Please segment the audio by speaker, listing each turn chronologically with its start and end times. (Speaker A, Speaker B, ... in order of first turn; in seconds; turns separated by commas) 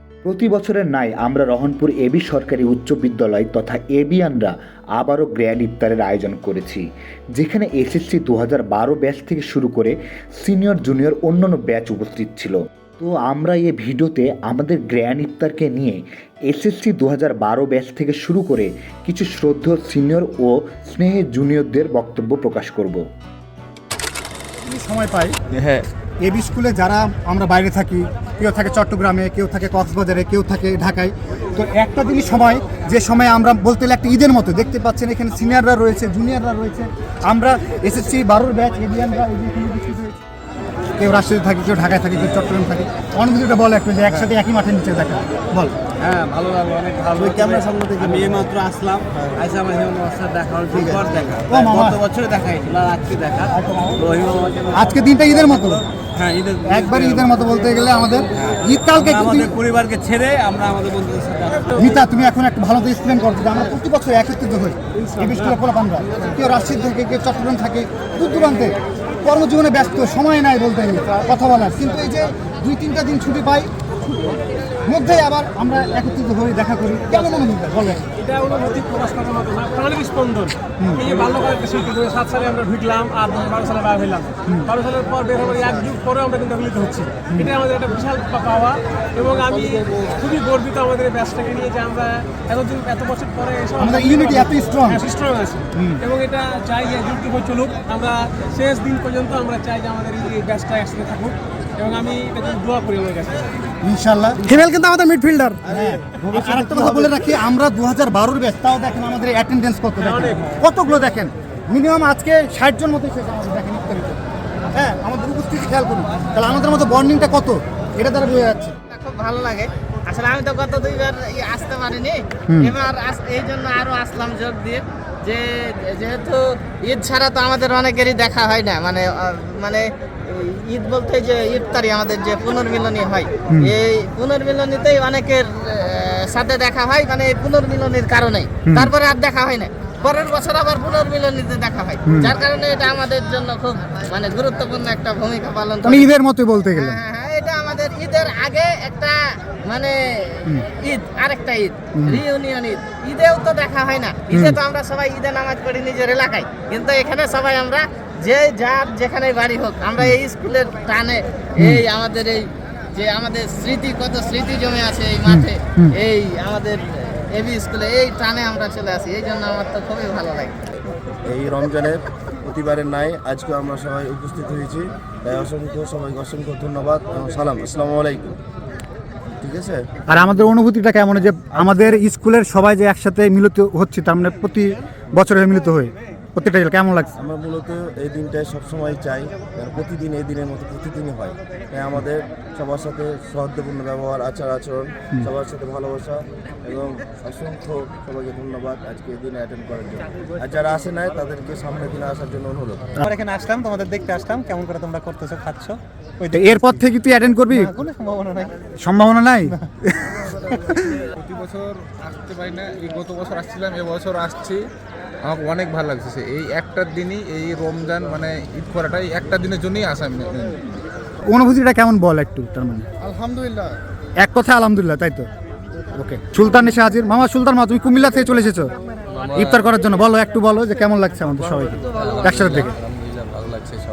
Speaker A: 0.2-23.0, Speaker B: 24.6-25.4, Speaker B: 26.2-40.2, Speaker B: 41.0-45.8, Speaker C: 46.0-53.4, Speaker B: 51.5-52.0, Speaker B: 53.5-54.0, Speaker C: 54.0-54.5, Speaker B: 54.7-55.9, Speaker C: 56.2-57.3, Speaker B: 56.6-59.6, Speaker C: 59.0-61.6, Speaker B: 61.7-73.7, Speaker B: 74.8-78.0, Speaker D: 78.2-103.6, Speaker B: 80.8-81.1, Speaker B: 93.8-95.1, Speaker B: 95.8-96.0, Speaker B: 103.8-104.6, Speaker D: 104.5-105.6, Speaker B: 105.6-118.8, Speaker D: 106.5-106.9, Speaker D: 110.1-110.4, Speaker E: 118.9-146.1, Speaker B: 138.7-138.9, Speaker B: 142.1-142.3, Speaker B: 145.8-147.0, Speaker E: 146.8-170.6, Speaker B: 151.9-152.2, Speaker B: 154.3-154.6, Speaker B: 165.3-165.9, Speaker F: 171.2-178.4, Speaker F: 179.4-179.8, Speaker B: 180.1-187.1, Speaker F: 181.6-181.9, Speaker F: 187.2-202.9, Speaker G: 203.1-206.4, Speaker B: 206.3-207.8, Speaker G: 207.6-208.5, Speaker B: 208.8-211.0, Speaker H: 211.2-214.6, Speaker H: 215.2-220.6, Speaker B: 221.3-222.9, Speaker B: 224.2-225.3, Speaker B: 225.9-228.7, Speaker B: 229.3-232.8, Speaker C: 232.4-232.7